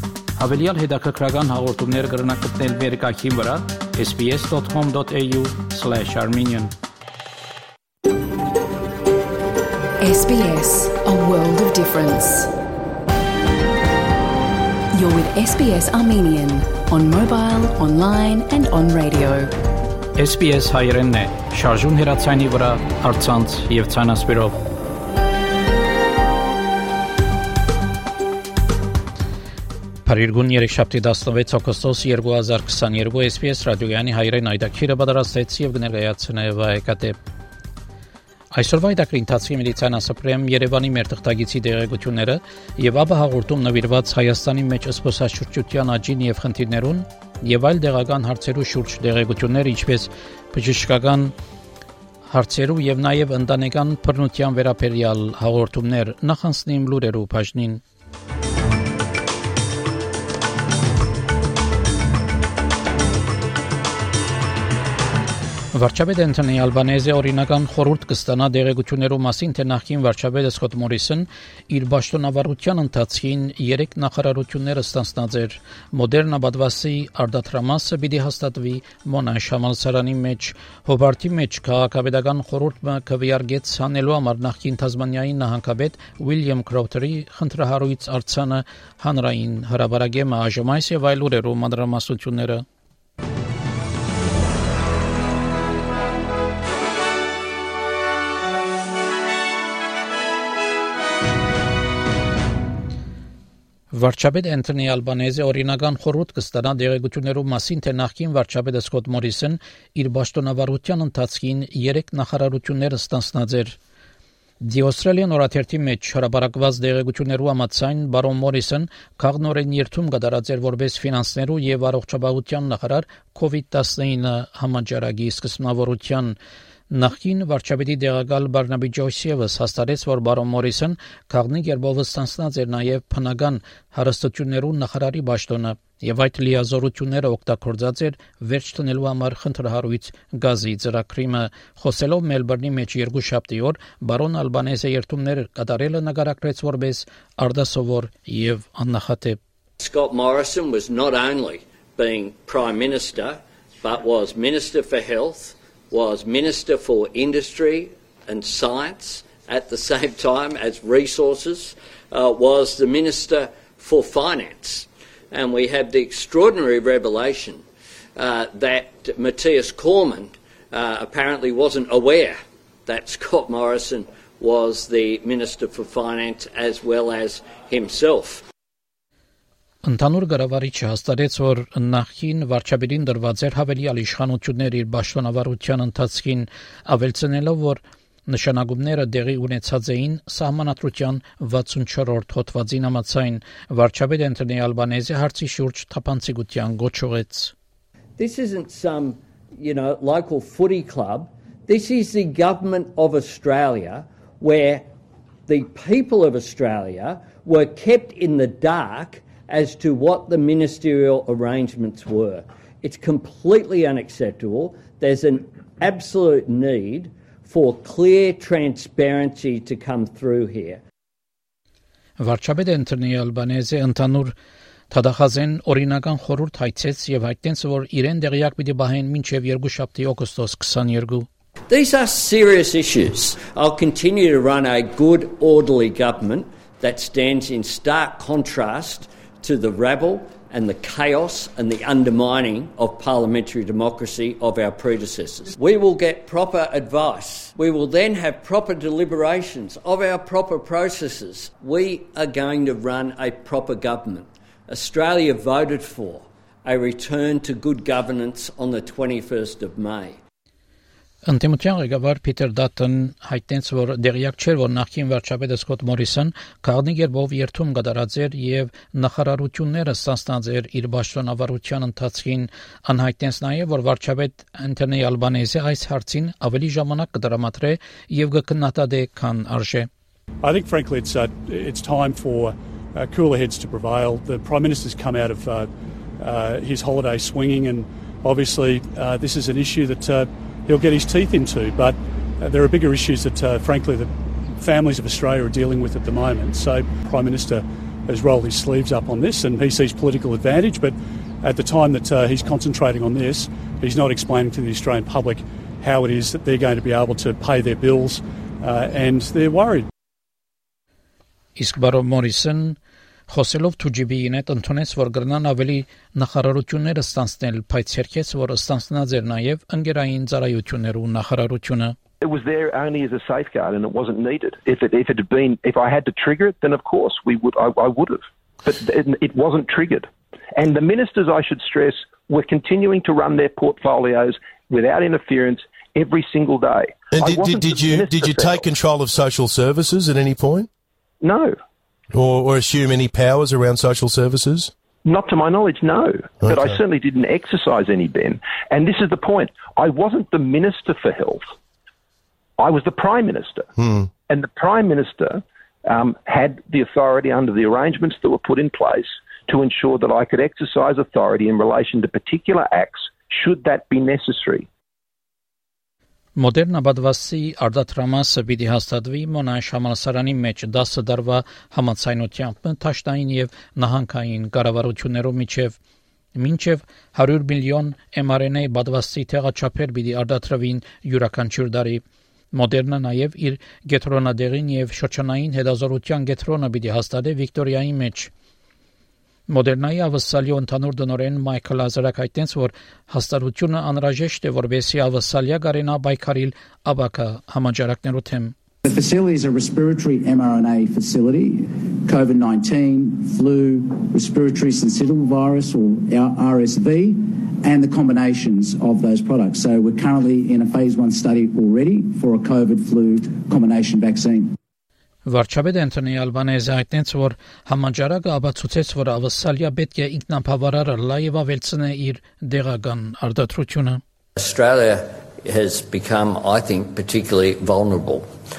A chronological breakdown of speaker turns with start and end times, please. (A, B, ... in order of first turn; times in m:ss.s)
0:00.4-0:06.7 A
0:10.0-0:12.5 B
0:14.9-0:19.5 B
0:20.2-0:24.5 A
0:30.0-0:37.2 A
0:38.5-0:51.3 A
0:52.3-0:57.8 A
1:05.7-1:32.6 A
1:43.9-1:53.8 A
1:54.6-2:06.4 A
2:06.9-2:29.4 A
2:29.8-2:47.6 C
2:48.2-2:58.4 C
2:59.8-3:17.5 A
3:18.2-3:24.8 C
3:25.5-3:40.8 C
3:42.2-3:44.3 A
3:44.9-3:51.3 A
3:51.7-4:20.2 C
4:21.2-4:39.9 A
4:40.4-5:09.9 D
5:11.6-5:12.8 A
5:13.3-5:22.0 A
5:22.2-5:38.7 E
5:37.1-5:40.7 F
5:41.2-5:41.6 E
5:42.1-5:44.7 F
5:45.0-5:51.5 E
5:46.4-5:46.8 F
5:52.6-5:53.7 E
5:53.8-5:54.1 F
5:54.3-6:04.7 E
6:06.4-6:15.8 A
6:16.3-6:28.3 A
6:29.5-6:38.5 A
6:38.8-6:54.5 G
6:55.2-7:04.0 A
7:04.4-7:08.2 C